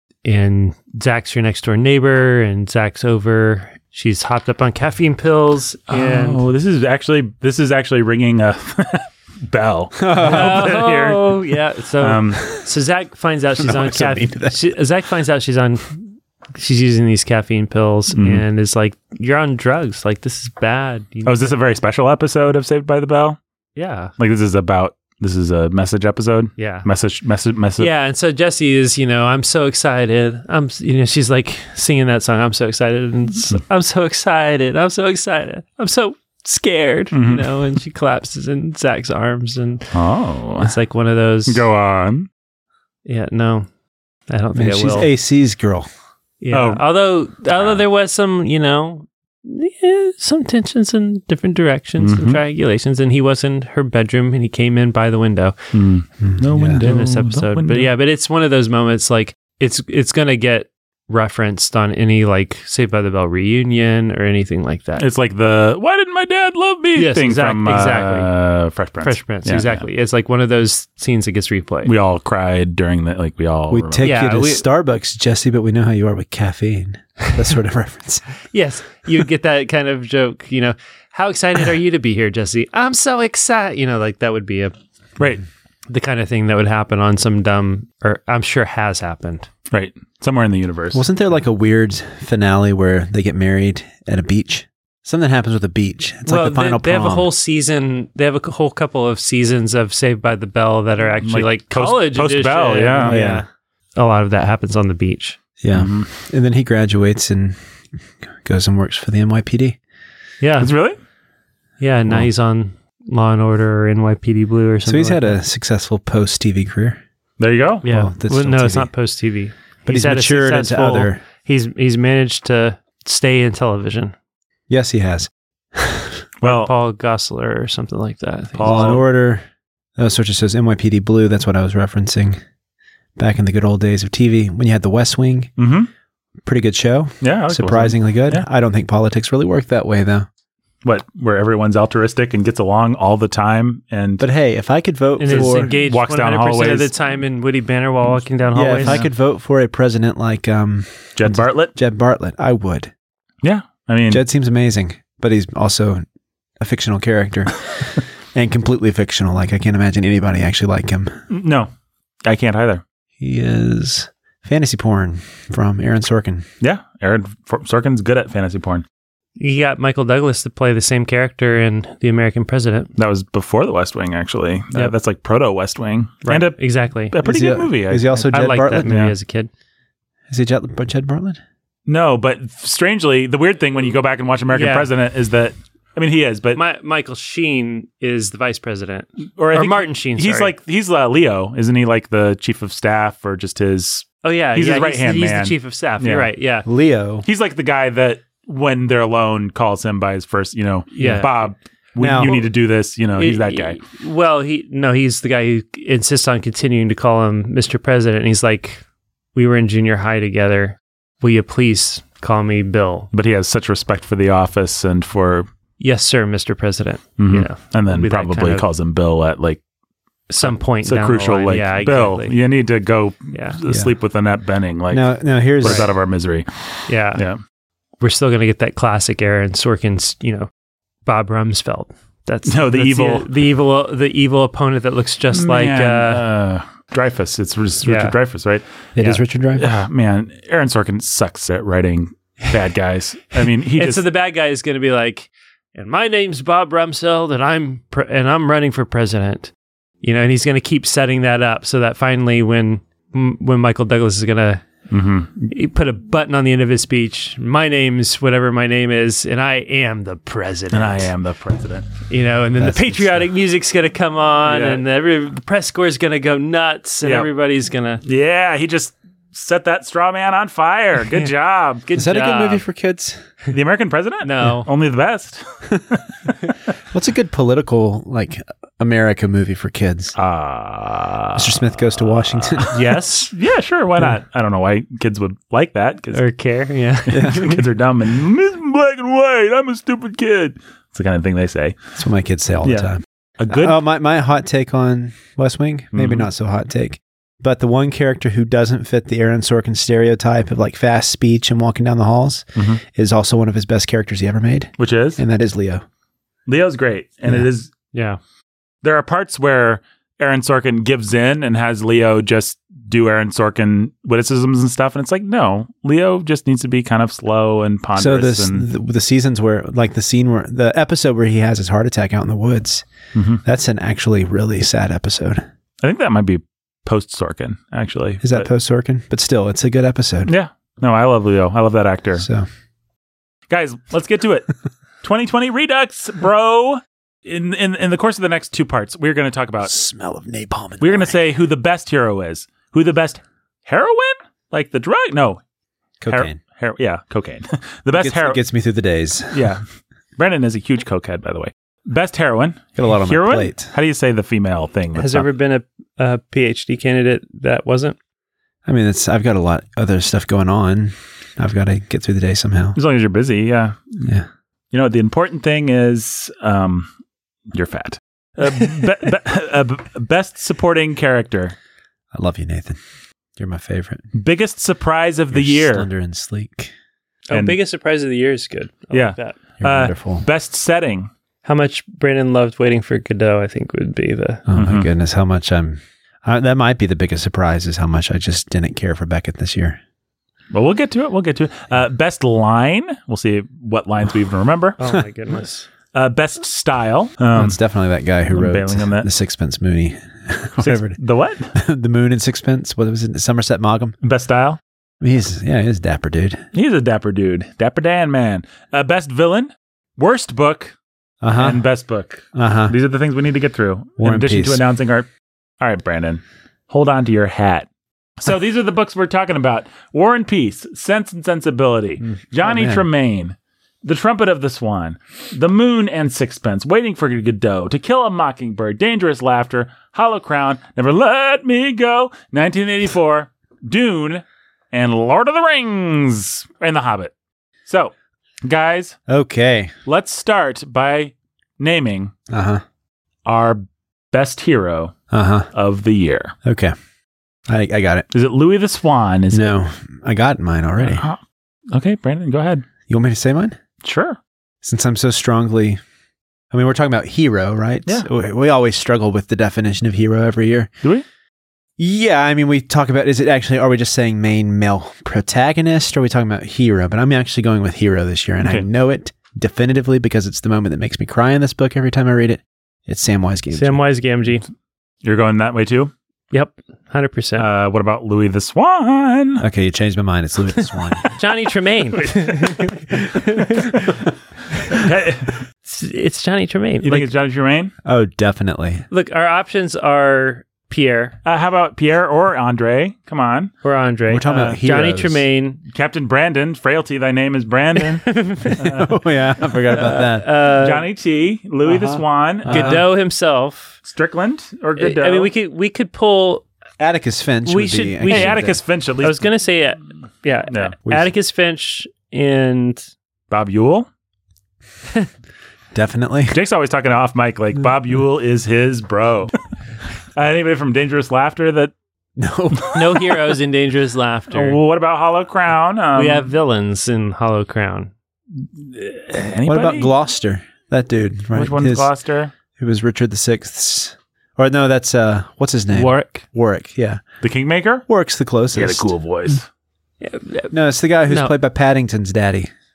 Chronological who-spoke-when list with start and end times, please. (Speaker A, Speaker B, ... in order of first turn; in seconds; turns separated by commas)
Speaker A: 0.2-6.4, Speaker B: 5.9-11.4, Speaker C: 10.0-10.7, Speaker A: 10.2-21.5, Speaker B: 12.0-12.5, Speaker C: 13.6-14.7, Speaker B: 18.1-18.4, Speaker B: 21.2-23.4, Speaker A: 23.8-24.1, Speaker B: 24.2-27.9, Speaker A: 26.6-26.9, Speaker A: 27.8-39.9, Speaker B: 37.1-37.5, Speaker B: 39.9-40.7, Speaker A: 40.6-41.6, Speaker B: 41.5-42.3, Speaker A: 43.1-43.7, Speaker A: 44.3-45.1, Speaker C: 44.5-45.9, Speaker A: 46.4-55.6, Speaker B: 46.5-46.8, Speaker B: 52.0-52.4, Speaker B: 55.7-57.9, Speaker C: 56.2-56.8, Speaker A: 56.8-65.1, Speaker B: 65.0-69.8, Speaker A: 67.0-68.3, Speaker A: 69.0-71.9, Speaker B: 71.8-74.2, Speaker C: 73.7-78.3, Speaker A: 74.0-74.6, Speaker A: 78.5-84.7, Speaker A: 85.9-89.5, Speaker B: 89.7-91.0, Speaker C: 90.9-97.3, Speaker A: 96.3-105.4, Speaker B: 101.2-103.2, Speaker C: 103.1-103.4, Speaker C: 105.6-107.6, Speaker B: 105.7-106.1, Speaker C: 108.4-109.8, Speaker A: 110.4-110.7, Speaker B: 110.6-111.0, Speaker A: 111.8-115.4, Speaker C: 114.8-117.0, Speaker B: 117.4-117.8, Speaker A: 117.8-124.1, Speaker C: 117.8-118.9, Speaker C: 119.9-121.2, Speaker C: 124.7-126.2, Speaker B: 126.4-126.7, Speaker A: 126.4-129.0, Speaker B: 128.6-129.1, Speaker C: 128.6-129.4, Speaker C: 130.0-132.4, Speaker C: 133.2-135.5, Speaker B: 135.6-135.9, Speaker C: 136.4-140.3, Speaker B: 137.2-138.4, Speaker B: 140.8-144.2, Speaker C: 144.2-145.7, Speaker A: 145.2-149.0, Speaker B: 145.3-146.9, Speaker C: 148.5-152.9, Speaker B: 148.8-149.1, Speaker B: 151.2-151.7, Speaker B: 153.4-154.2, Speaker C: 154.1-156.1, Speaker C: 156.6-161.2, Speaker B: 161.3-161.7, Speaker B: 162.3-162.8, Speaker C: 163.2-166.4, Speaker B: 166.6-168.8, Speaker A: 169.4-172.9, Speaker B: 173.0-176.6, Speaker A: 176.3-177.2, Speaker B: 177.1-179.1, Speaker C: 177.2-178.9, Speaker A: 178.3-179.5, Speaker C: 180.3-181.4, Speaker B: 181.9-186.6, Speaker A: 184.5-184.9, Speaker A: 186.6-190.5, Speaker B: 189.4-196.3, Speaker A: 194.2-196.7, Speaker C: 196.7-197.3, Speaker B: 197.2-203.8, Speaker A: 200.9-201.5, Speaker C: 202.0-202.3, Speaker A: 202.2-202.5, Speaker A: 203.2-208.8, Speaker A: 209.3-213.1, Speaker B: 213.1-215.5, Speaker A: 215.8-218.7, Speaker B: 217.2-219.6, Speaker A: 220.3-222.3, Speaker B: 220.4-227.4, Speaker C: 224.9-225.9, Speaker A: 225.6-225.9, Speaker A: 226.9-227.2, Speaker A: 228.0-230.5, Speaker A: 231.1-236.3, Speaker B: 232.5-233.3, Speaker B: 235.3-238.7, Speaker A: 237.8-238.2, Speaker C: 239.0-239.7, Speaker B: 239.6-244.0, Speaker A: 243.4-254.7, Speaker B: 254.9-255.5, Speaker A: 255.5-261.1, Speaker B: 260.7-261.9, Speaker A: 262.1-268.0, Speaker C: 262.6-263.3, Speaker B: 264.5-264.8, Speaker B: 267.0-267.3, Speaker B: 268.0-271.9, Speaker A: 271.9-272.6, Speaker C: 271.9-273.2, Speaker B: 273.5-276.1, Speaker A: 274.2-274.7, Speaker C: 276.9-280.2, Speaker B: 280.2-282.7, Speaker C: 281.4-282.8, Speaker A: 282.7-283.3, Speaker B: 283.3-286.2, Speaker A: 286.1-287.6, Speaker B: 287.1-291.8, Speaker C: 287.1-287.6, Speaker C: 292.0-305.8, Speaker B: 292.6-293.8, Speaker B: 295.9-296.3, Speaker B: 304.8-305.2, Speaker B: 306.5-307.7, Speaker A: 307.9-308.2, Speaker B: 308.8-318.7, Speaker C: 318.0-322.9, Speaker B: 323.1-323.4, Speaker C: 323.4-325.4, Speaker B: 325.8-328.5, Speaker C: 328.2-330.3, Speaker B: 330.3-332.3, Speaker C: 332.2-332.5, Speaker B: 333.5-334.5, Speaker B: 335.0-339.7, Speaker C: 339.6-341.2, Speaker B: 340.8-345.4, Speaker C: 346.0-346.4, Speaker B: 346.1-348.4, Speaker C: 348.0-349.5, Speaker B: 349.3-349.6, Speaker B: 350.2-355.3, Speaker C: 352.8-353.7, Speaker A: 354.9-358.0, Speaker C: 358.7-362.8, Speaker B: 362.8-364.1, Speaker B: 364.7-366.9, Speaker B: 367.5-371.6, Speaker C: 372.1-372.8, Speaker C: 373.4-374.1, Speaker B: 374.1-375.9, Speaker C: 375.3-376.7, Speaker A: 377.3-379.4, Speaker B: 377.3-377.6, Speaker B: 378.9-381.1, Speaker C: 379.6-380.2, Speaker A: 381.4-384.4, Speaker C: 384.5-389.8, Speaker B: 384.5-384.9, Speaker B: 390.5-394.8, Speaker A: 394.8-395.7, Speaker B: 395.9-397.6, Speaker C: 397.4-401.0, Speaker B: 398.3-399.1, Speaker B: 400.6-401.5, Speaker C: 401.5-404.0, Speaker B: 404.0-404.6, Speaker C: 405.0-406.5, Speaker B: 406.5-410.8, Speaker C: 411.2-411.6, Speaker B: 411.4-415.1, Speaker C: 412.3-412.8, Speaker C: 414.0-414.6, Speaker B: 415.6-417.7, Speaker B: 418.2-437.1, Speaker C: 422.4-422.9, Speaker B: 437.7-437.9, Speaker B: 438.4-439.0, Speaker C: 439.1-439.7, Speaker B: 439.9-442.1, Speaker C: 442.3-442.6, Speaker B: 443.3-444.9, Speaker C: 445.1-445.5, Speaker B: 445.5-446.3, Speaker C: 446.4-446.7, Speaker C: 447.5-448.1, Speaker B: 448.1-449.6, Speaker C: 449.3-451.1, Speaker B: 450.8-451.2, Speaker B: 451.7-452.6, Speaker C: 452.9-453.6, Speaker B: 453.8-454.2, Speaker C: 454.6-455.8, Speaker C: 456.5-460.7, Speaker C: 461.8-473.8, Speaker A: 473.5-474.4, Speaker B: 475.0-475.9, Speaker A: 476.3-477.5, Speaker B: 477.4-479.4, Speaker C: 479.4-481.1, Speaker A: 481.1-483.9, Speaker B: 482.0-482.7, Speaker B: 484.7-485.4, Speaker A: 485.6-487.1, Speaker B: 486.8-487.7, Speaker C: 487.8-488.9, Speaker A: 488.9-491.2, Speaker B: 491.2-493.5, Speaker A: 493.6-495.6, Speaker C: 494.1-495.2, Speaker B: 494.3-494.6, Speaker B: 495.7-498.9, Speaker A: 497.8-498.7, Speaker C: 498.5-500.3, Speaker A: 499.7-500.9, Speaker B: 500.5-502.9, Speaker C: 501.7-502.9, Speaker A: 502.5-503.8, Speaker B: 503.8-505.3, Speaker A: 504.8-506.5, Speaker C: 506.8-508.6, Speaker A: 507.5-512.9, Speaker B: 508.1-509.2, Speaker B: 510.5-510.7, Speaker C: 510.9-511.1, Speaker B: 513.3-513.9, Speaker C: 515.7-516.4, Speaker B: 516.3-519.3, Speaker B: 520.2-521.7, Speaker C: 522.2-523.2, Speaker A: 522.7-524.6, Speaker B: 524.3-526.3, Speaker A: 526.0-527.9, Speaker B: 528.4-529.9, Speaker C: 529.5-531.9, Speaker B: 531.3-532.3, Speaker C: 532.6-537.0, Speaker A: 535.7-536.2, Speaker B: 537.2-537.9, Speaker C: 537.9-538.9, Speaker B: 538.5-539.5, Speaker A: 540.0-540.5, Speaker C: 540.5-542.5, Speaker A: 541.1-541.4